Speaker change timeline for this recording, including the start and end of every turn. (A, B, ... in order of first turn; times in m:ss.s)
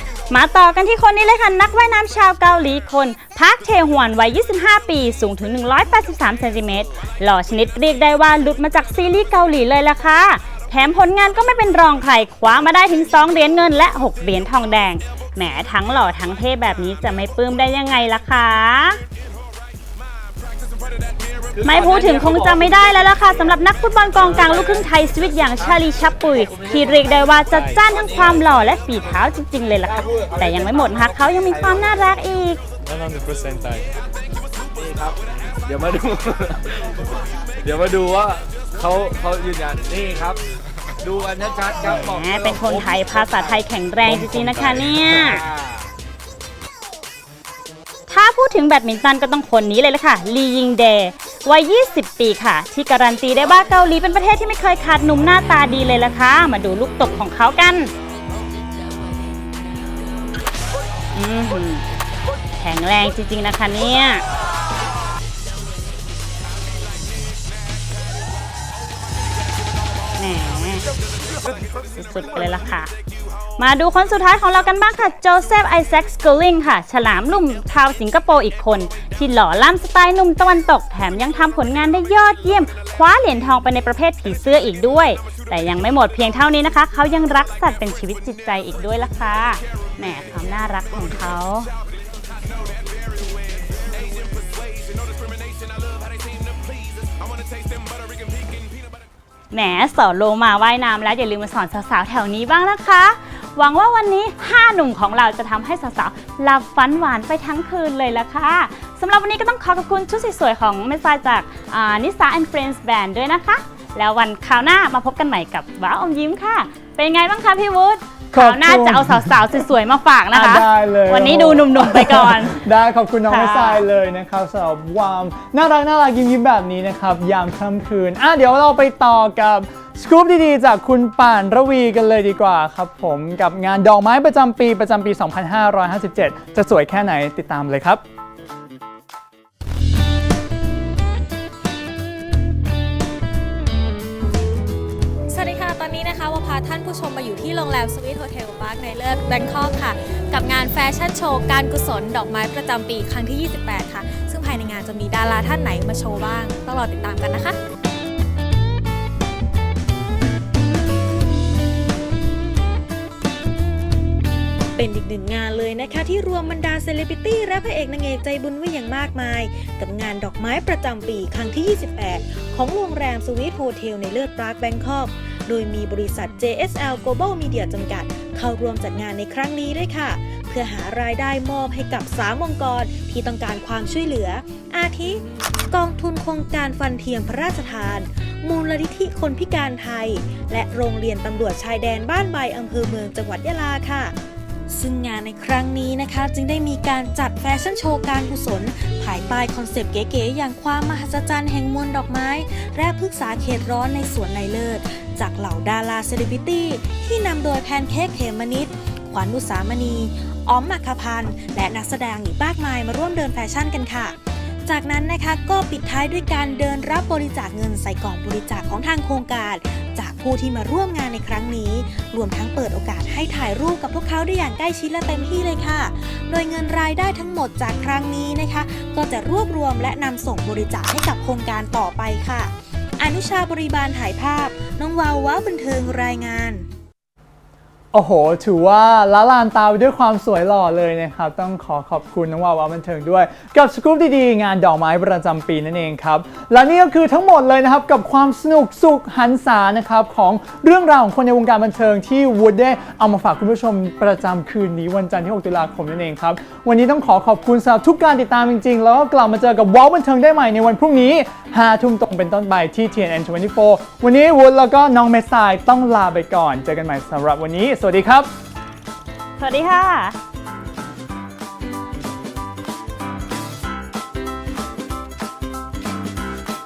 0:00.3-0:19.0 A
0:21.6-0:22.6 B
0:21.6-0:32.6 A
0:27.5-0:27.8 B
0:30.1-0:31.0 B
0:32.8-0:33.8 B
0:34.8-0:36.9 B
0:37.6-0:40.4 B
0:41.0-0:45.8 B
0:41.8-0:45.4 A
0:48.1-0:57.9 A
1:01.1-1:01.8 A
1:02.6-1:04.2 A
1:10.2-1:10.8 A
1:12.0-1:12.9 A
1:13.6-1:31.7 A
1:39.5-2:02.6 A
1:58.3-1:59.6 C
2:00.3-2:18.0 C
2:03.3-2:03.8 A
2:25.3-2:37.6 D
2:44.8-3:14.1 E
3:14.7-3:34.2 E
3:34.7-3:56.7 E
3:57.9-4:28.3 C
4:29.4-4:30.2 A